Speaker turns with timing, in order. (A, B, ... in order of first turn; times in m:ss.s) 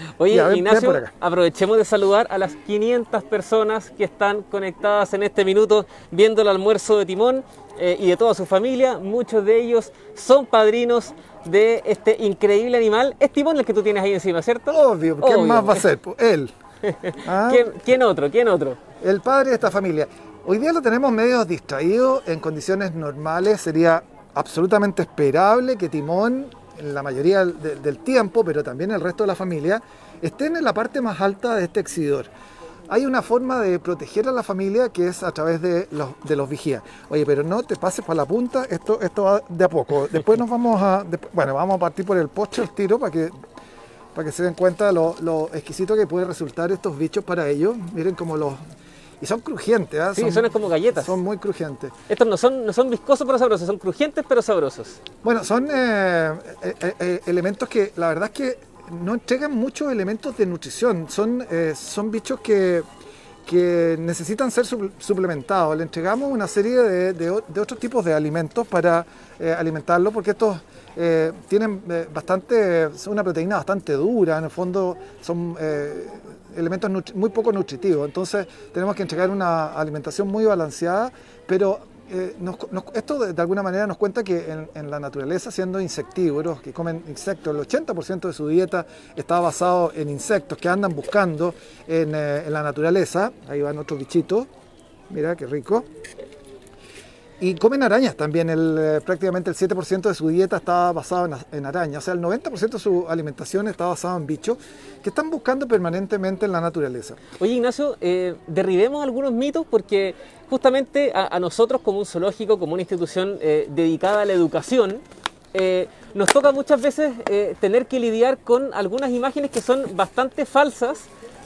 0:00.2-0:15.9 A
0:00.3-0:01.1 B
0:14.7-0:16.5 B
0:16.8-0:18.8 A
0:17.2-0:17.6 B
0:19.0-0:32.3 B
0:32.9-0:43.3 B
0:44.1-0:48.6 B
0:49.2-0:51.9 B
0:50.2-0:51.2 A
0:52.1-0:55.0 A
0:55.2-1:02.8 B
1:03.4-1:34.5 B
1:35.1-1:35.9 B
1:37.4-1:47.2 B
1:47.4-1:55.0 A
1:55.5-2:01.1 A